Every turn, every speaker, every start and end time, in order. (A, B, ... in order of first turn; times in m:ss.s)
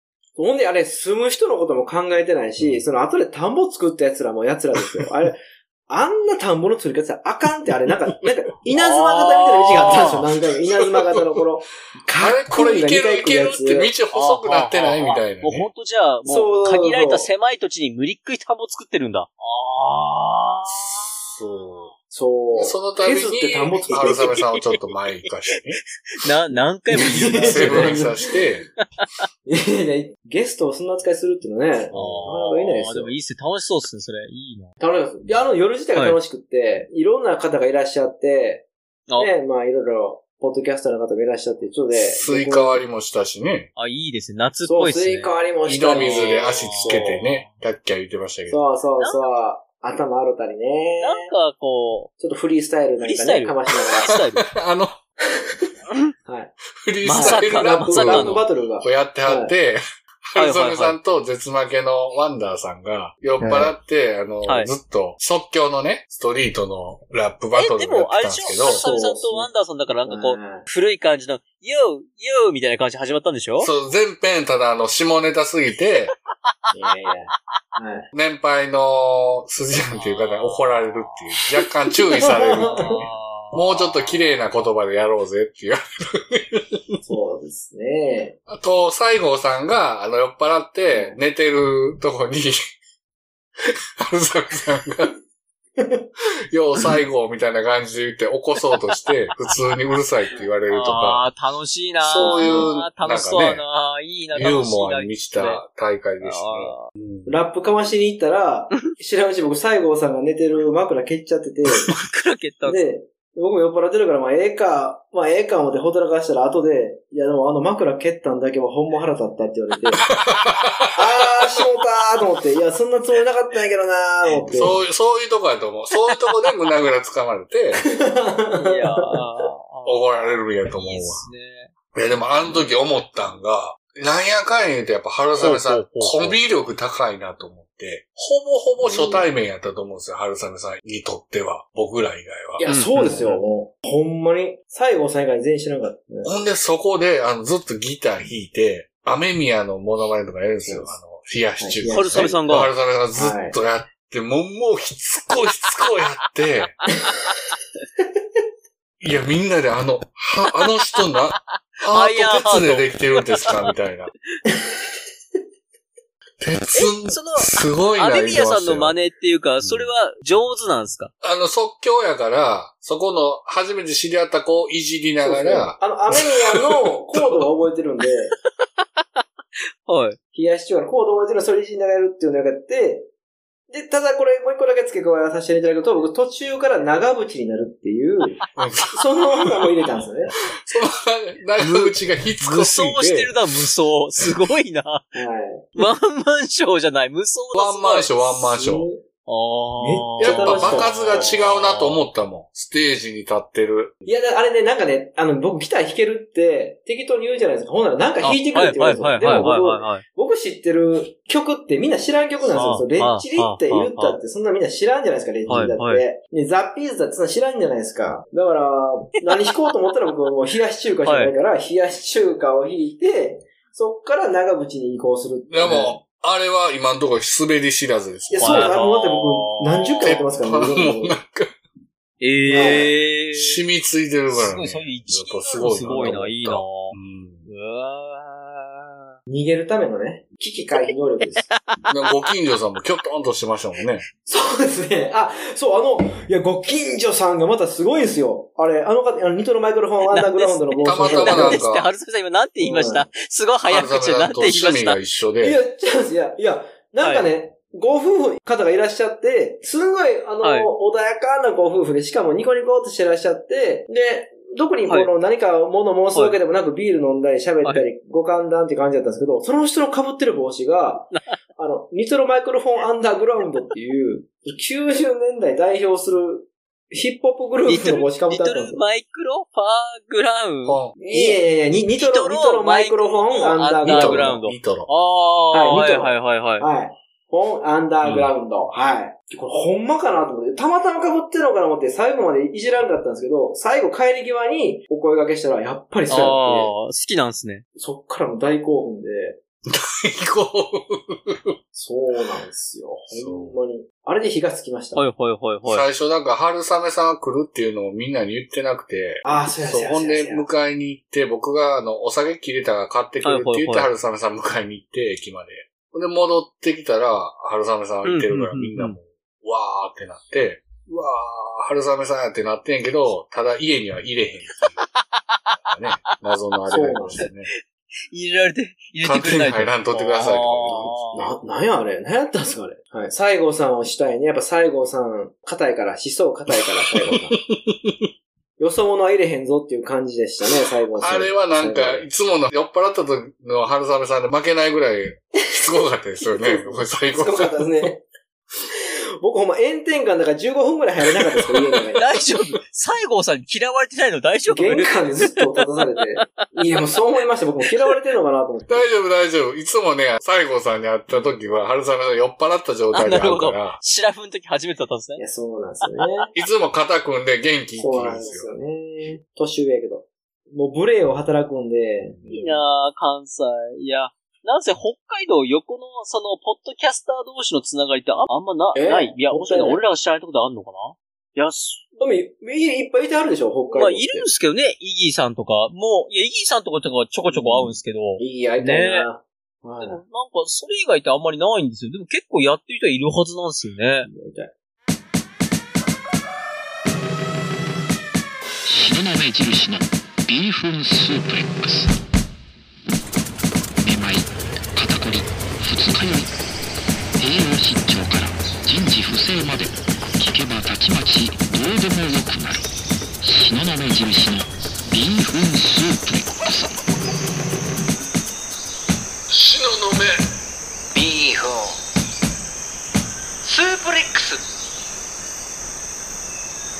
0:00.4-0:13.9 A
0:08.7-0:10.2 B
0:09.8-0:11.4 C
0:12.1-0:15.7 C
0:14.0-0:21.1 B
0:16.3-0:17.3 A
0:20.7-0:21.9 C
0:22.1-0:24.4 A
0:22.5-0:25.8 C
0:23.9-0:28.0 B
0:26.9-0:28.3 A
0:27.4-0:28.6 C
0:28.8-0:29.2 B
0:29.5-0:33.1 A
0:31.9-0:32.3 C
0:31.9-0:34.7 B
0:34.8-0:42.8 A
0:41.9-0:43.7 C
0:43.8-0:45.3 B
0:44.6-0:47.1 A
0:45.6-0:48.6 C
0:45.9-0:47.6 B
0:48.5-0:51.3 A
0:49.0-0:49.3 B
0:51.0-0:52.1 B
0:52.2-0:54.1 A
0:53.0-0:54.5 B
0:53.8-0:55.0 C
0:55.2-0:55.5 A
0:56.3-0:56.5 A
0:56.8-1:08.8 C
0:57.0-0:58.5 B
0:57.1-0:59.5 A
1:00.4-1:01.0 B
1:03.4-1:03.8 A
1:04.4-1:04.7 B
1:07.5-1:13.7 B
1:08.8-1:09.5 A
1:10.0-1:10.6 A
1:13.6-1:16.1 C
1:16.7-1:18.1 A
1:18.1-1:27.0 C
1:19.9-1:24.7 B
1:22.2-1:23.0 A
1:27.0-1:28.4 A
1:28.5-1:32.6 C
1:30.9-1:31.2 A
1:34.0-1:35.1 C
1:35.8-1:36.0 A
1:36.5-1:41.2 C
1:38.6-1:39.0 B
1:40.7-1:45.6 B
1:42.0-1:43.6 C
1:42.2-1:42.7 A
1:44.3-1:47.3 C
1:46.2-1:46.9 B
1:47.2-1:51.9 A
1:51.9-1:52.8 B
1:52.6-2:00.0 A
2:00.2-2:01.4 C
2:00.9-2:04.8 A
2:04.4-2:07.8 C
2:07.7-2:09.5 A
2:08.5-2:11.7 B
2:09.8-2:11.3 C
2:11.9-2:23.2 C
2:15.4-2:16.4 B
2:18.8-2:19.3 A
2:22.6-2:26.3 A
2:22.7-2:23.4 B
2:26.2-2:36.7 C
2:30.6-2:30.9 A
2:31.6-2:32.4 A
2:31.9-2:32.7 B
2:33.1-2:33.6 A
2:37.0-2:37.4 B
2:39.0-2:44.1 C
2:40.6-2:43.7 B
2:46.4-2:49.0 C
2:46.7-2:51.1 B
2:49.6-2:49.9 C
2:51.2-2:57.3 C
2:55.2-2:58.3 A
2:58.0-2:59.2 B
2:59.8-3:00.2 B
3:00.3-3:03.1 A
3:03.7-3:08.4 A
3:08.4-3:08.8 B
3:08.6-3:09.3 C
3:08.9-3:10.3 A
3:10.6-3:13.4 C
3:11.6-3:15.1 B
3:15.1-3:15.9 A
3:15.8-3:18.2 B
3:17.5-3:18.9 C
3:18.3-3:19.0 A
3:19.2-3:22.1 B
3:19.8-3:21.4 A
3:20.2-3:24.0 C
3:24.0-3:46.0 A
3:28.2-3:30.0 B
3:32.4-3:34.2 B
3:35.5-3:36.0 B
3:39.2-3:39.7 B
3:41.0-3:41.3 B
3:45.5-3:48.7 C
3:48.3-3:51.2 A
3:48.4-3:50.2 B
3:50.0-3:51.5 C
3:52.2-3:53.6 B
3:52.5-3:52.9 A
3:53.3-3:57.5 C
3:54.3-3:56.9 B
3:55.8-3:56.3 A
3:57.5-3:59.1 B
3:59.3-4:01.4 A
4:00.7-4:01.8 B
4:01.9-4:04.0 C
4:04.2-4:11.6 A
4:10.0-4:15.0 B
4:10.8-4:11.9 C
4:12.6-4:13.0 A
4:13.7-4:15.6 C
4:15.4-4:38.8 A
4:17.0-4:17.3 B
4:20.4-4:20.7 B
4:31.1-4:31.4 B
4:37.6-4:46.7 B
4:40.6-4:41.0 C
4:41.0-4:44.4 A
4:43.8-4:44.9 C
4:45.5-4:56.7 A
4:48.0-4:48.3 C
4:56.1-4:57.6 B
4:57.8-4:59.4 A
4:59.7-5:01.4 C
5:01.7-5:05.0 A
5:03.1-5:03.6 C
5:04.9-5:05.8 B
5:05.7-5:24.7 C
5:09.2-5:10.5 A
5:13.2-5:13.9 B
5:18.0-5:19.0 B
5:24.7-5:25.5 B
5:25.7-5:27.5 C
5:26.7-5:27.3 A
5:28.1-5:31.3 B
5:29.0-5:31.2 C
5:31.1-5:37.4 A
5:36.5-5:38.1 C
5:38.6-5:42.1 A
5:40.5-5:47.6 C
5:45.5-5:48.0 A
5:48.7-5:52.2 A
5:51.2-5:51.8 C
5:51.9-5:56.9 B
5:54.5-5:58.9 A
5:57.6-5:58.0 B
5:58.7-6:03.8 C
6:02.9-6:05.2 B
6:05.2-6:06.3 A
6:05.8-6:06.3 B
6:06.3-6:08.5 C
6:07.8-6:12.6 A
6:12.2-6:21.9 B
6:18.7-6:19.8 A
6:22.0-6:24.3 A
6:23.7-6:29.1 B
6:27.3-6:30.0 A
6:29.8-6:34.1 B
6:34.0-6:34.5 A
6:38.6-6:41.9 D
6:43.8-6:46.3 D
6:47.2-6:52.6 D
6:53.2-6:56.7 D
6:59.3-7:00.1 C
7:00.9-7:01.7 D
7:03.4-7:04.4 D